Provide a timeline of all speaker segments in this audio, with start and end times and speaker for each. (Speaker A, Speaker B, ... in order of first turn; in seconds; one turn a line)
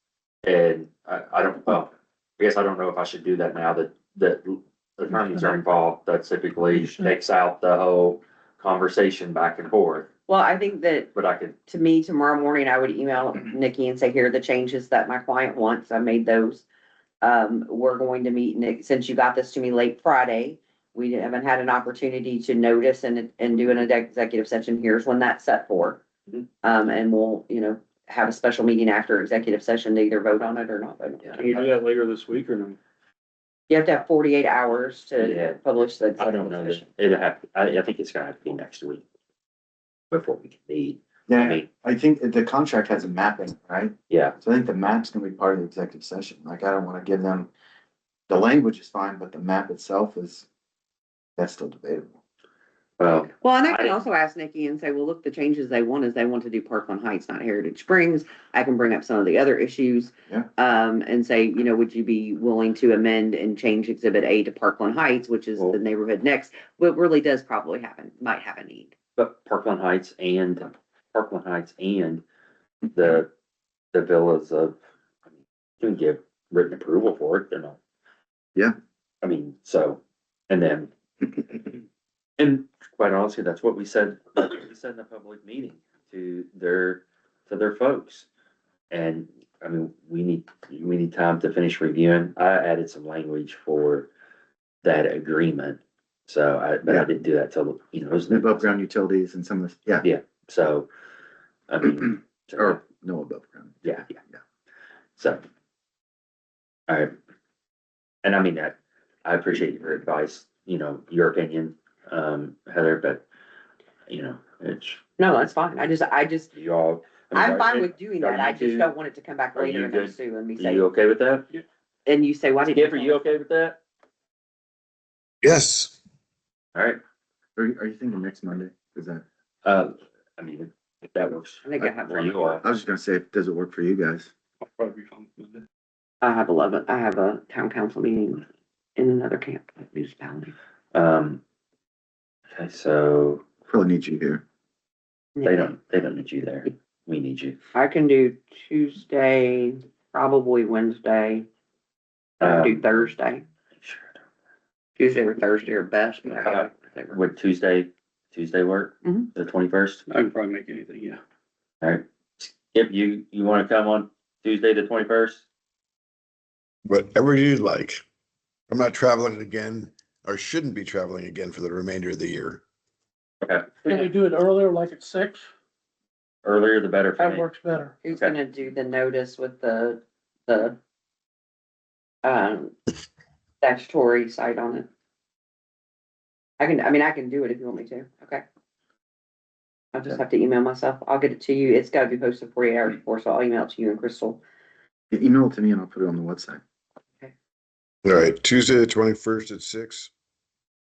Speaker A: 0.4-10.1
Speaker B: 10.3-11.1
Speaker A: 11.1-11.6
Speaker B: 11.7-16.6
Speaker B: 17.2-26.0
Speaker B: 26.6-31.6
Speaker C: 31.4-32.8
Speaker B: 33.7-36.8
Speaker A: 35.2-35.6
Speaker A: 36.2-39.0
Speaker A: 40.1-41.7
Speaker D: 41.3-47.5
Speaker A: 44.1-44.4
Speaker D: 48.3-50.5
Speaker D: 51.4-52.1
Speaker A: 53.0-54.0
Speaker B: 53.4-68.9
Speaker A: 69.2-72.2
Speaker A: 72.9-73.3
Speaker A: 73.9-74.7
Speaker A: 75.8-77.8
Speaker A: 79.2-80.9
Speaker A: 82.4-88.3
Speaker A: 88.9-94.1
Speaker A: 94.8-98.8
Speaker D: 98.3-100.1
Speaker A: 100.0-100.9
Speaker A: 101.7-102.8
Speaker D: 102.6-103.8
Speaker A: 103.8-104.1
Speaker A: 105.2-105.4
Speaker A: 106.9-107.1
Speaker A: 108.2-113.2
Speaker A: 114.1-115.0
Speaker B: 115.2-116.5
Speaker A: 116.5-118.9
Speaker B: 117.3-120.9
Speaker A: 119.5-121.5
Speaker B: 122.0-123.2
Speaker A: 122.6-123.8
Speaker E: 125.4-126.0
Speaker A: 126.7-127.0
Speaker D: 127.5-129.2
Speaker A: 129.6-132.6
Speaker B: 131.6-132.5
Speaker D: 132.5-134.3
Speaker C: 134.6-135.6
Speaker B: 136.2-138.4
Speaker B: 138.9-140.5
Speaker A: 140.9-141.4
Speaker A: 142.5-143.4
Speaker D: 143.7-144.4
Speaker A: 145.4-147.6
Speaker B: 147.7-151.4
Speaker B: 152.4-153.4
Speaker A: 152.4-153.1
Speaker A: 153.8-154.2
Speaker B: 155.0-157.2
Speaker A: 156.3-160.0
Speaker C: 160.1-161.2
Speaker A: 161.8-165.4
Speaker E: 166.8-168.0
Speaker E: 168.7-172.6
Speaker A: 173.4-174.1
Speaker F: 173.8-175.4
Speaker A: 176.4-177.5
Speaker F: 177.2-177.9
Speaker B: 178.0-180.8
Speaker A: 178.1-178.3
Speaker B: 182.2-182.7
Speaker B: 183.6-184.9
Speaker B: 186.6-188.4
Speaker B: 189.9-194.4
Speaker D: 195.1-196.6
Speaker E: 198.0-200.1